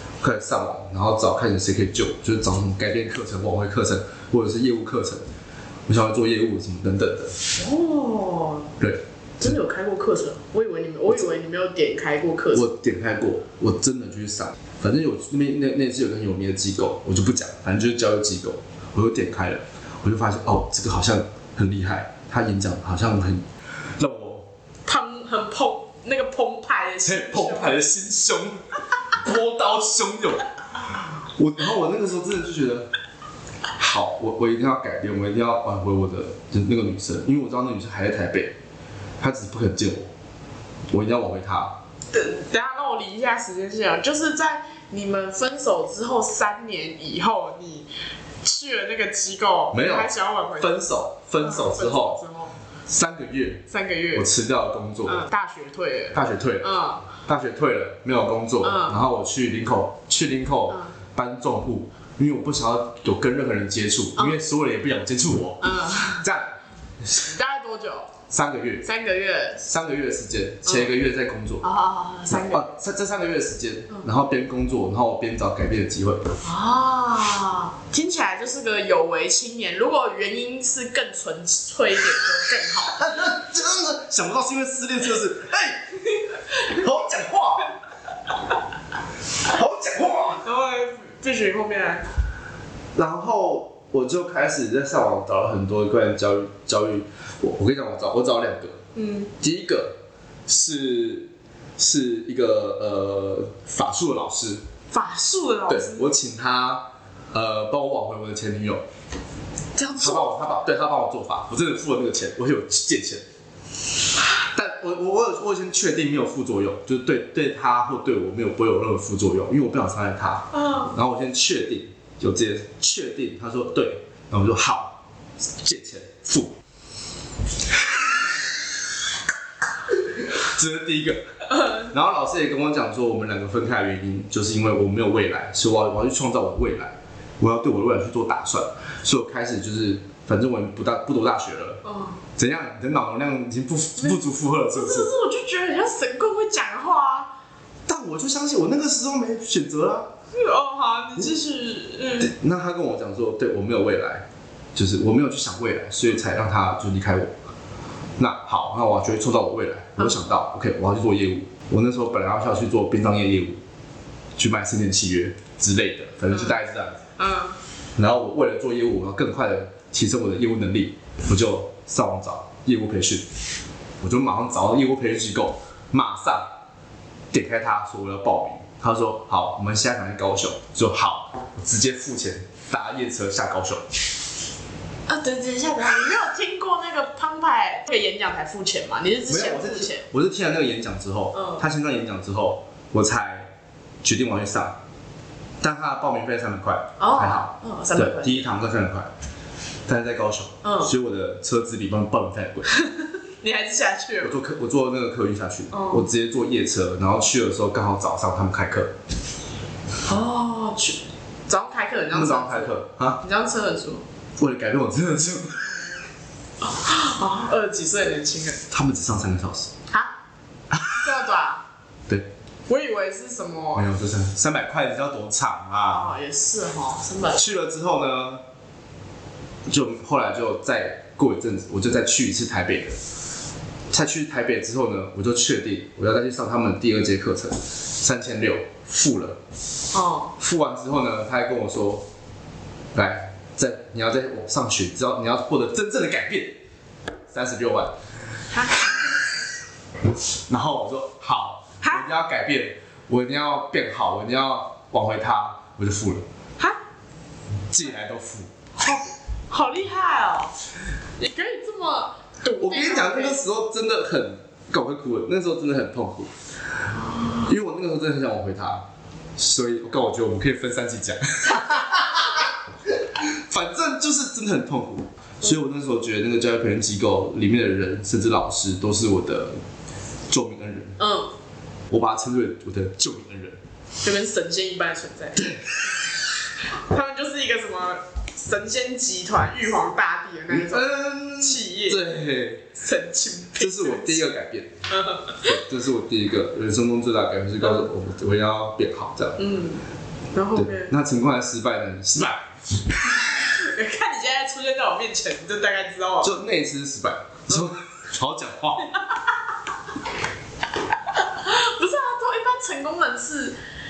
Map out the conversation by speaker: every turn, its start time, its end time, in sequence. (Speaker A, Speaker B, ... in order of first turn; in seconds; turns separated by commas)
Speaker A: 0.2-5.2, Speaker A: 5.9-7.4, Speaker B: 7.6-8.8, Speaker B: 9.4-12.7, Speaker A: 12.5-23.4, Speaker A: 24.0-24.5, Speaker B: 24.9-27.8, Speaker A: 27.1-32.9, Speaker A: 33.8-38.6, Speaker A: 39.2-40.1, Speaker A: 40.9-41.8, Speaker B: 42.1-47.9, Speaker B: 48.4-50.8, Speaker A: 49.7-52.2, Speaker B: 51.4-52.5, Speaker A: 52.9-55.2, Speaker B: 53.7-54.3, Speaker B: 55.1-57.0, Speaker A: 56.1-67.3, Speaker B: 58.6-59.0, Speaker B: 65.6-66.2, Speaker B: 67.2-68.1, Speaker A: 68.3-68.8, Speaker B: 68.8-69.7, Speaker A: 69.7-71.6, Speaker B: 71.6-72.7, Speaker A: 72.3-76.3, Speaker B: 76.4-83.1, Speaker A: 82.9-86.0, Speaker A: 86.5-87.7, Speaker A: 89.4-90.4, Speaker B: 90.4-92.1, Speaker A: 93.0-98.8, Speaker B: 99.0-99.3, Speaker A: 99.4-100.0, Speaker A: 100.5-104.6, Speaker B: 104.9-106.1, Speaker A: 105.7-108.8, Speaker B: 109.8-110.4, Speaker A: 110.0-113.2, Speaker A: 114.4-125.0, Speaker A: 125.6-126.6, Speaker A: 129.9-131.2, Speaker A: 131.7-141.8, Speaker B: 141.9-142.2, Speaker A: 142.4-145.1, Speaker B: 144.7-147.3, Speaker A: 147.9-150.1, Speaker B: 150.3-152.3, Speaker A: 152.2-157.3, Speaker A: 158.2-163.6, Speaker A: 164.4-167.0, Speaker B: 167.2-167.6, Speaker A: 168.0-173.3, Speaker A: 174.0-176.5, Speaker A: 177.3-183.8, Speaker B: 185.1-190.0, Speaker A: 189.3-193.5, Speaker A: 194.0-194.8, Speaker A: 195.6-199.1, Speaker B: 197.0-198.5, Speaker A: 199.9-202.7, Speaker B: 200.6-200.9, Speaker B: 202.7-204.4, Speaker A: 204.2-208.9, Speaker B: 205.7-206.0, Speaker B: 210.1-214.0, Speaker A: 212.1-213.2, Speaker A: 214.4-215.9, Speaker B: 216.6-218.6, Speaker A: 218.7-219.7, Speaker A: 220.7-221.1, Speaker B: 220.9-221.6, Speaker B: 222.7-223.9, Speaker A: 223.8-226.1, Speaker B: 225.9-227.5, Speaker A: 227.3-228.4, Speaker A: 229.7-233.0, Speaker A: 233.9-239.4, Speaker B: 239.9-240.3, Speaker A: 240.4-242.1, Speaker A: 242.9-246.6, Speaker A: 247.3-247.9, Speaker B: 248.5-249.2, Speaker A: 250.5-256.2, Speaker A: 257.7-258.5, Speaker B: 258.8-260.6, Speaker B: 261.2-263.4, Speaker A: 262.6-266.3, Speaker B: 267.2-267.4, Speaker A: 267.4-268.9, Speaker A: 269.4-279.6, Speaker A: 280.3-281.0, Speaker B: 281.0-281.3, Speaker A: 281.9-283.6, Speaker B: 284.0-285.5, Speaker B: 286.7-292.0, Speaker A: 290.5-292.7, Speaker B: 292.7-294.2, Speaker A: 293.6-294.7, Speaker B: 294.9-295.5, Speaker A: 295.4-299.4, Speaker B: 299.4-299.8, Speaker B: 300.3-300.9, Speaker A: 300.6-302.9, Speaker B: 303.4-306.4, Speaker A: 306.2-309.0, Speaker B: 311.1-313.6